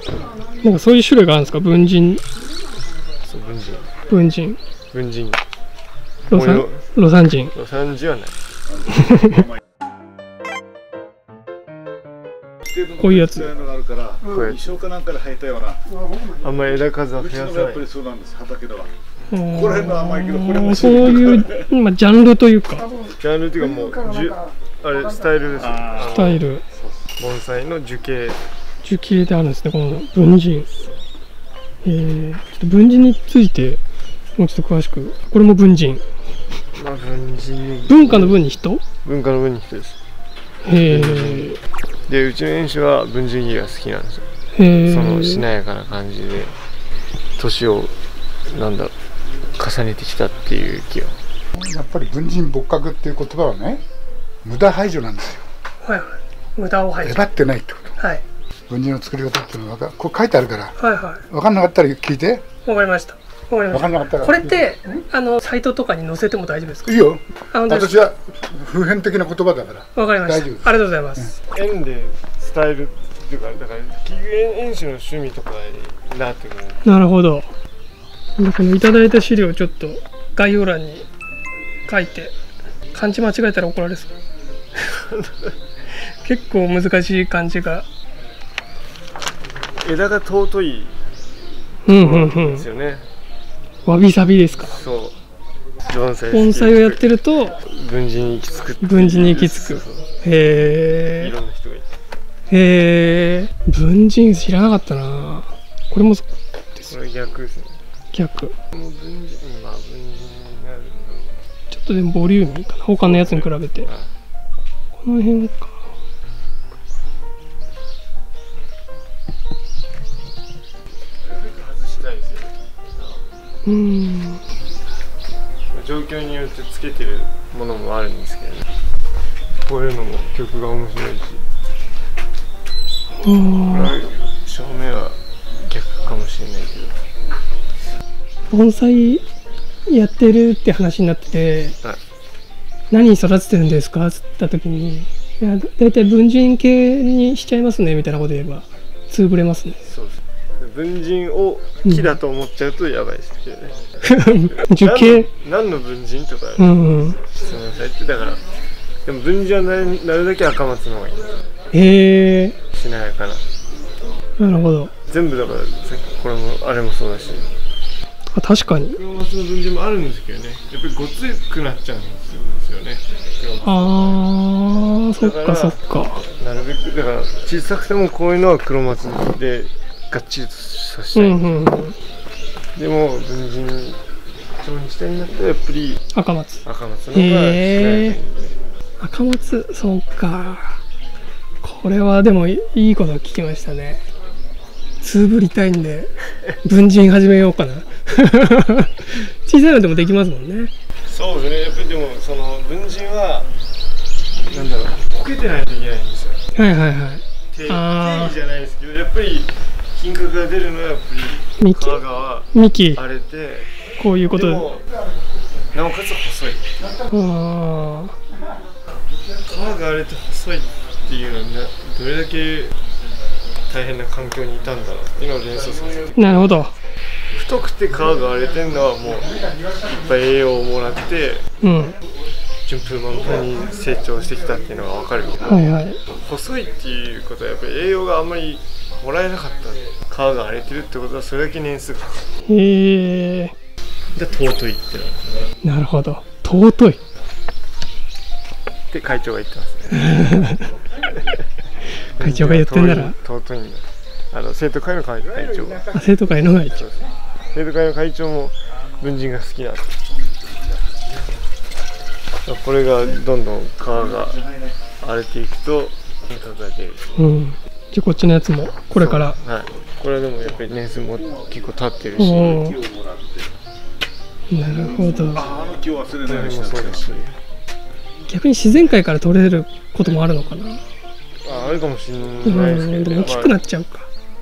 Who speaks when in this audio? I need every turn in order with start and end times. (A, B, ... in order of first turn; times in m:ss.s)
0:00.6-0:02.2 A
0:03.2-0:03.9 B
0:04.1-0:04.6 A
0:04.9-0:05.4 B
0:06.3-0:08.4 B
0:06.3-0:07.5 A
0:08.8-0:09.5 C
0:08.9-0:09.4 A
0:12.7-0:15.8 C
0:13.0-0:13.5 A
0:14.2-0:14.7 B
0:16.2-0:17.9 B
0:17.3-0:18.9 C
0:19.3-0:23.0 A
0:19.5-0:21.6 C
0:23.0-0:28.4 B
0:26.1-0:26.6 A
0:28.8-0:30.7 A
0:30.5-0:31.0 B
0:31.8-0:33.8 A
0:34.4-0:36.0 A
0:36.7-0:38.4 B
0:37.9-0:38.8 A
0:39.0-0:40.0 B
0:40.6-0:41.6 A
0:40.7-0:44.2 B
0:44.5-0:45.4 A
0:44.8-0:46.6 B
0:47.4-0:47.9 B
0:48.4-0:48.9 B
0:49.6-0:51.2 B
0:51.5-0:53.8 D
0:54.4-0:55.4 D
0:55.8-0:57.2 A
0:57.0-0:58.0 D
0:58.0-0:58.2 A
0:58.7-1:00.8 D
1:00.8-1:01.2 A
1:01.3-1:02.4 D
1:02.6-1:06.9 A
1:03.7-1:04.6 D
1:06.8-1:11.3 D
1:07.5-1:08.0 A
1:10.0-1:11.3 A
1:11.5-1:16.9 B
1:16.8-1:17.5 A
1:18.4-1:21.0 A
1:21.9-1:22.3 A
1:22.9-1:24.1 A
1:24.8-1:25.5 B
1:26.1-1:27.8 A
1:29.8-1:31.0 B
1:31.8-1:32.6 A
1:31.9-1:33.0 B
1:33.8-1:34.7 A
1:34.6-1:35.2 B
1:35.8-1:40.1 B
1:36.3-1:37.6 A
1:38.8-1:41.4 A
1:41.0-1:41.9 B
1:42.5-1:46.9 A
1:46.9-1:47.8 B
1:48.1-1:48.5 A
1:48.7-1:51.5 B
1:51.7-1:53.9 A
1:53.0-1:54.1 B
1:55.0-1:55.9 A
2:01.2-2:03.2 B
2:03.6-2:04.4 A
2:05.7-2:08.6 B
2:09.6-2:11.4 B
2:13.2-2:13.9 A
2:13.7-2:17.0 B
2:18.5-2:19.2 A
2:19.9-2:21.8 A
2:22.9-2:29.8 A
2:29.8-2:38.4 B
2:34.0-2:35.3 A
2:36.6-2:37.2 A
2:39.0-2:41.3 B
2:41.7-2:42.6 A
2:42.7-2:43.4 B
2:44.4-2:44.9 A
2:45.1-2:47.5 B
2:48.3-2:49.0 A
2:48.9-2:54.2 B
2:53.6-2:56.2 A
2:55.2-3:01.7 B
3:01.1-3:02.0 A
3:02.7-3:04.0 B
3:04.6-3:06.0 B
3:06.1-3:08.2 A
3:06.6-3:08.5 B
3:09.0-3:10.8 A
3:11.6-3:14.0 A
3:15.0-3:20.7 A
3:21.0-3:23.5 B
3:24.3-3:26.4 B
3:26.5-3:28.4 A
3:27.5-3:34.9 B
3:31.6-3:32.0 A
3:32.5-3:33.0 A
3:34.0-3:34.7 A
3:35.7-3:37.0 B
3:37.1-3:38.2 A
3:39.4-3:42.8 B
3:43.6-3:46.5 B
3:46.1-3:46.7 A
3:47.3-3:51.4 B
3:51.6-3:52.0 A
3:52.6-3:55.6 B
3:55.4-3:56.0 A
3:56.1-4:02.3 B
4:02.4-4:03.5 A
4:04.1-4:05.5 B
4:05.6-4:07.0 A
4:08.9-4:10.3 B
4:09.9-4:10.7 A
4:12.0-4:15.9 B
4:12.1-4:13.2 A
4:15.9-4:16.8 A
4:16.7-4:20.0 B
4:20.2-4:20.8 C
4:22.4-4:24.5 B
4:24.3-4:24.7 C
4:25.0-4:27.1 B
4:27.1-4:29.4 A
4:28.9-4:32.7 B
4:32.2-4:32.8 A
4:32.2-4:33.5 C
4:34.5-4:35.5 A
4:34.8-4:37.0 C
4:36.1-4:37.4 B
4:38.3-4:40.8 A
4:41.4-4:43.6 B
4:42.4-4:44.1 A